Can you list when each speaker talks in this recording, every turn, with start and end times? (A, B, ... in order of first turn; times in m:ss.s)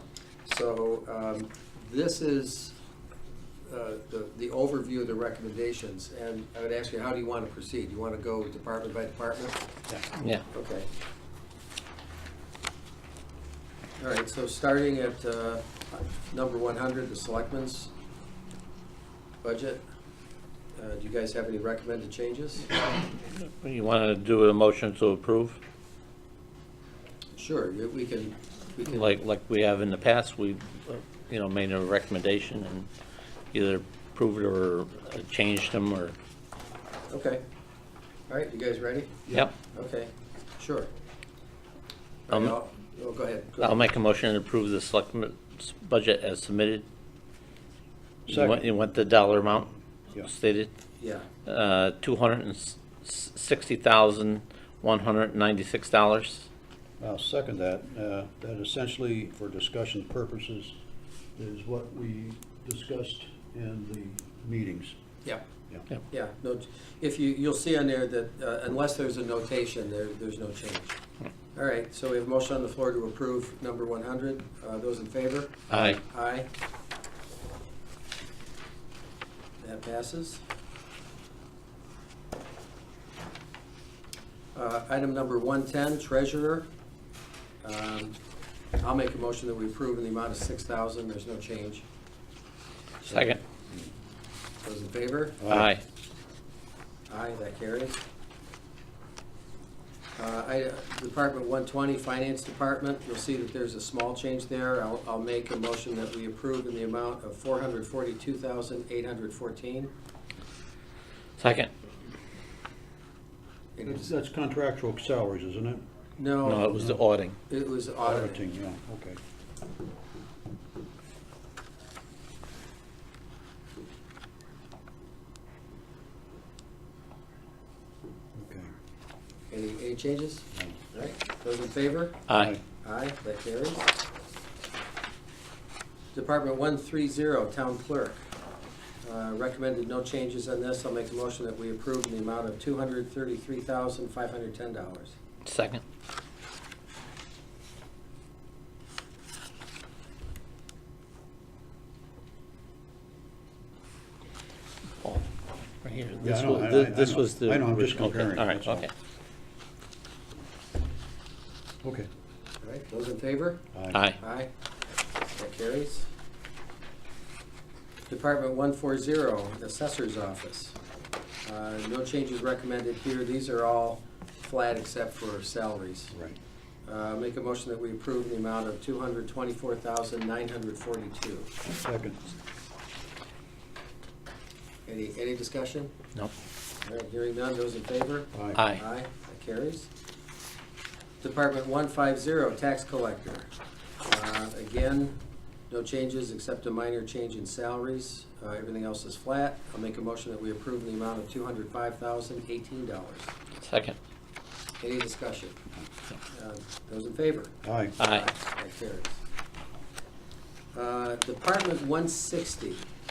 0:00.4-0:02.7 A
0:03.7-0:09.7 A
0:10.2-0:10.4 B
0:10.5-0:10.9 A
0:14.0-0:17.9 A
0:19.4-0:19.8 A
0:20.8-0:22.8 A
0:23.3-0:25.6 B
0:27.4-0:29.1 A
0:28.9-0:32.9 B
0:33.5-0:36.2 B
0:37.1-0:37.4 A
0:38.3-0:40.9 A
0:42.3-0:43.9 A
0:43.6-0:46.8 B
0:48.3-0:48.7 C
0:48.3-0:49.7 B
0:50.2-0:50.7 B
0:51.0-0:51.2 A
0:51.4-0:56.5 B
0:57.0-1:00.7 C
1:01.4-1:05.0 C
1:06.1-1:11.0 A
1:11.5-1:16.5 A
1:15.7-1:16.0 B
1:19.6-1:20.4 A
1:24.5-1:26.7 A
1:27.6-1:28.1 A
1:28.8-1:31.8 A
1:33.0-1:33.4 A
1:33.0-1:33.4 B
1:34.6-1:35.5 A
1:35.4-1:35.7 C
1:35.5-1:35.8 B
1:37.1-1:38.0 A
1:40.2-1:49.9 A
1:51.4-1:51.7 B
1:53.8-1:54.1 A
1:53.8-1:55.8 C
1:56.2-1:56.9 A
1:56.4-1:57.4 B
1:56.7-1:57.0 C
1:57.5-1:58.4 A
1:58.0-1:59.2 C
2:08.3-2:08.7 C
2:09.5-2:13.9 A
2:12.3-2:12.6 B
2:12.3-2:12.6 C
2:16.1-2:18.2 A
2:19.0-2:25.1 A
2:25.4-2:25.8 B
2:35.8-2:38.9 B
2:36.2-2:38.9 C
2:41.8-2:42.1 C
2:42.6-2:43.6 A
2:43.7-2:44.0 C
2:43.9-2:44.2 B
2:44.2-2:44.5 A
2:45.3-2:46.1 A
2:48.1-2:50.8 A
2:51.4-2:56.1 A
2:56.1-2:56.4 C
2:56.8-3:01.5 A
3:01.8-3:02.2 C
3:04.9-3:05.9 A
3:06.8-3:09.9 A
3:08.3-3:08.6 C
3:08.5-3:08.8 B
3:11.2-3:13.5 A
3:14.0-3:15.2 A
3:15.7-3:23.3 A
3:23.6-3:24.0 B
3:24.8-3:25.6 A
3:26.3-3:29.2 A
3:27.6-3:27.9 C
3:28.0-3:28.2 B
3:30.7-3:32.8 A